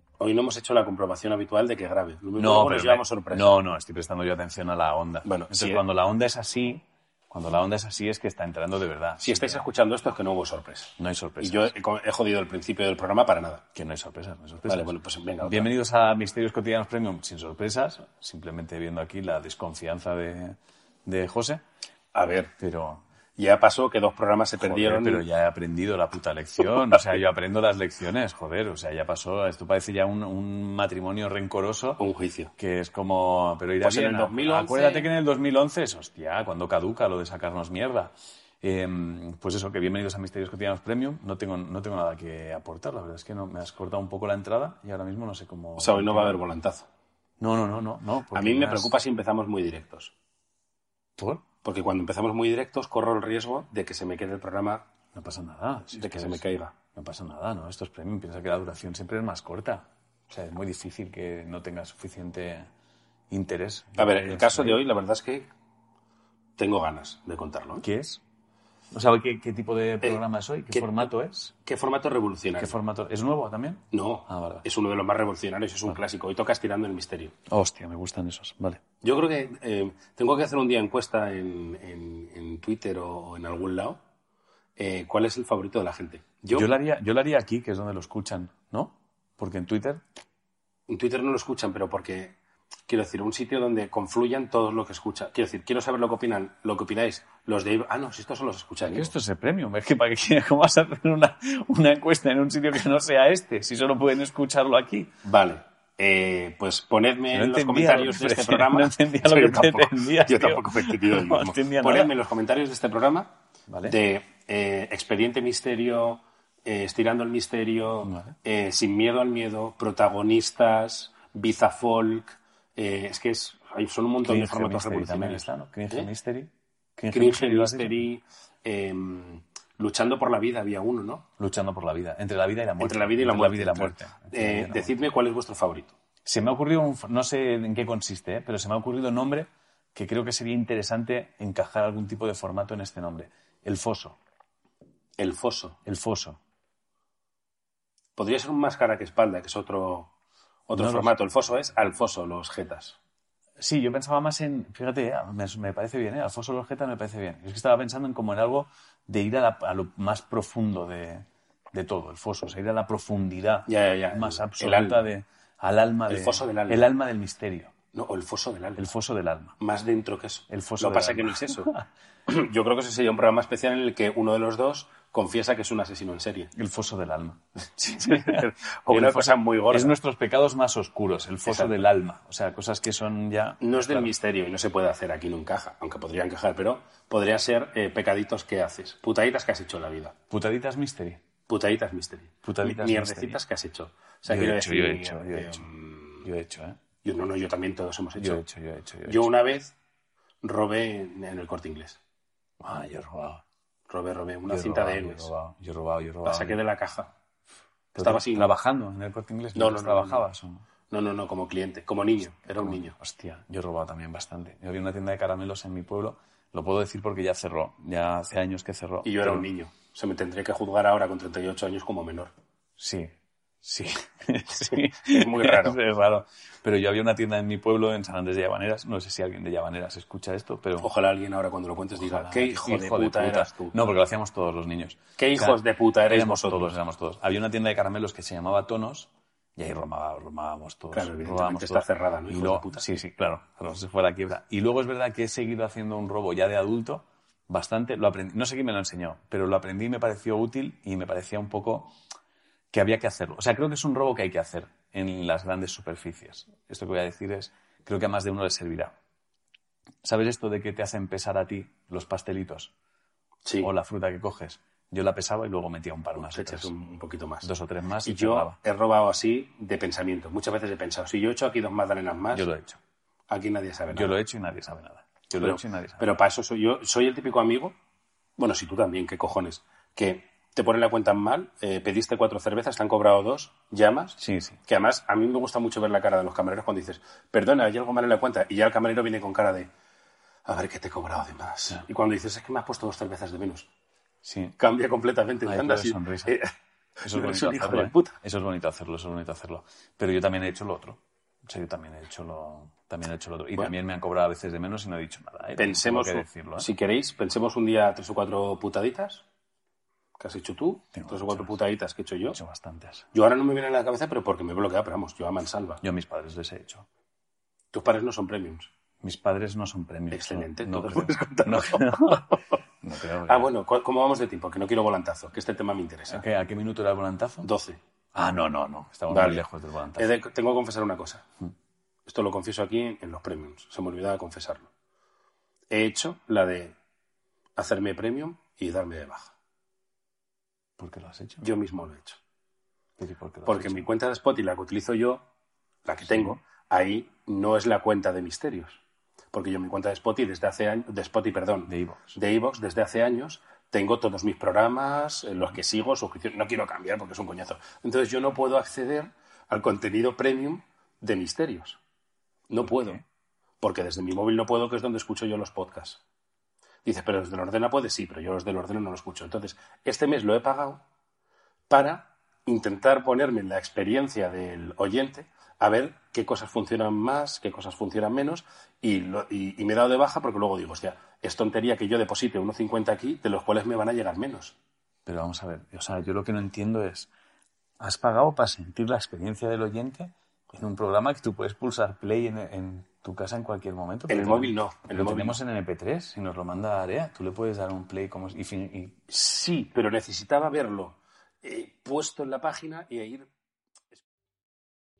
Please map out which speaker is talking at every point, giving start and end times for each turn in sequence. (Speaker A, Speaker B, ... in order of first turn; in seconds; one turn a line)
Speaker A: 0.2-3.6
Speaker B: 2.4-9.6
Speaker A: 5.2-5.8
Speaker A: 9.2-13.6
Speaker B: 11.0-11.7
Speaker B: 13.7-21.6
Speaker A: 14.6-15.7
Speaker A: 22.1-22.5
Speaker B: 22.6-23.0
Speaker A: 23.4-25.2
Speaker B: 24.6-32.0
Speaker A: 32.0-32.5
Speaker B: 32.6-46.4
Speaker A: 33.8-35.1
Speaker A: 45.8-46.9
Speaker B: 47.4-48.9
Speaker A: 48.3-50.1
Speaker B: 51.2-51.5
Speaker A: 51.6-54.9
Speaker B: 55.1-62.7
Speaker A: 55.9-56.7
Speaker B: 63.3-64.8
Speaker A: 64.0-65.5
Speaker A: 66.6-67.8
Speaker B: 67.8-68.2
Speaker B: 68.9-71.5
Speaker A: 70.7-71.1
Speaker A: 71.6-72.7
Speaker B: 72.6-74.7
Speaker A: 73.9-77.3
Speaker B: 77.5-78.8
Speaker A: 79.0-84.0
Speaker A: 84.8-86.7
Speaker B: 86.5-90.0
Speaker A: 90.9-99.1
Speaker B: 98.8-105.1
Speaker A: 105.2-126.1
Speaker B: 107.3-112.1
Speaker B: 113.7-114.0
Speaker B: 118.0-118.3
Speaker B: 124.2-128.0
Speaker A: 127.1-131.2
Speaker B: 131.4-134.9
Speaker A: 132.8-135.9
Speaker B: 136.2-144.2
Speaker A: 145.2-145.8
Speaker B: 145.8-146.4
Speaker A: 148.2-150.1
Speaker A: 150.7-153.0
Speaker B: 150.7-151.1
Speaker B: 153.6-167.7
Speaker A: 163.7-165.1
Speaker A: 166.1-166.9
Speaker A: 167.9-168.9
Speaker B: 168.8-169.5
Speaker A: 169.6-171.7
Speaker B: 170.5-171.9
Speaker A: 172.3-176.5
Speaker B: 176.5-184.1
Speaker A: 178.0-179.9
Speaker A: 181.4-181.8
Speaker A: 183.6-190.1
Speaker B: 190.3-191.2
Speaker A: 191.5-196.2
Speaker B: 192.4-193.4
Speaker B: 194.3-195.7
Speaker B: 196.2-196.8
Speaker A: 197.0-198.4
Speaker B: 198.2-199.3
Speaker A: 199.0-199.7
Speaker A: 200.4-202.0
Speaker B: 202.6-203.4
Speaker A: 203.9-205.3
Speaker B: 204.5-206.6
Speaker A: 206.2-207.1
Speaker B: 207.9-210.7
Speaker A: 208.0-208.5
Speaker A: 209.5-210.2
Speaker A: 210.9-212.9
Speaker B: 212.5-219.5
Speaker A: 219.0-222.3
Speaker B: 222.8-223.1
Speaker B: 223.6-230.9
Speaker A: 225.1-225.8
Speaker A: 230.8-233.7
Speaker B: 232.0-251.9
Speaker A: 235.2-236.8
Speaker A: 240.9-242.8
Speaker B: 252.7-258.9
Speaker B: 260.0-262.7
Speaker A: 263.4-263.7
Speaker B: 263.6-266.7
Speaker A: 266.1-267.5
Speaker B: 267.4-268.6
Speaker A: 268.0-272.5
Speaker B: 272.3-272.8
Speaker A: 273.3-274.2
Speaker B: 273.9-276.1
Speaker A: 275.3-277.7
Speaker A: 278.4-289.7
Speaker B: 284.2-284.6
Speaker A: 290.4-293.7
Speaker B: 294.2-294.6
Speaker A: 294.6-296.5
Speaker B: 295.4-296.4
Speaker B: 297.0-306.7
Speaker A: 297.0-298.1
Speaker A: 305.6-309.2
Speaker A: 310.2-312.4
Speaker B: 310.9-311.6
Speaker B: 312.3-313.1
Speaker A: 313.1-315.8
Speaker B: 315.8-316.9
Speaker A: 317.7-318.7
Speaker B: 319.0-323.5
Speaker A: 320.1-322.4
Speaker A: 323.3-326.2
Speaker B: 326.1-327.5
Speaker A: 327.4-327.8
Speaker B: 328.1-330.1
Speaker A: 329.1-329.4
Speaker A: 330.0-331.2
Speaker A: 332.1-334.7
Speaker A: 335.7-336.8
Speaker A: 337.6-339.3
Speaker B: 340.8-341.5
Speaker A: 341.4-342.2
Speaker B: 343.0-343.9
Speaker A: 343.4-345.2
Speaker A: 345.8-348.8
Speaker B: 346.1-346.4
Speaker A: 349.3-361.8
Speaker B: 351.7-352.2
Speaker A: 362.5-363.0
Speaker B: 362.6-363.0
Speaker A: 363.6-366.0
Speaker A: 366.8-370.8
Speaker A: 371.7-384.6
Speaker B: 385.1-387.1
Speaker B: 387.8-399.1
Speaker A: 394.1-395.4
Speaker A: 399.1-403.3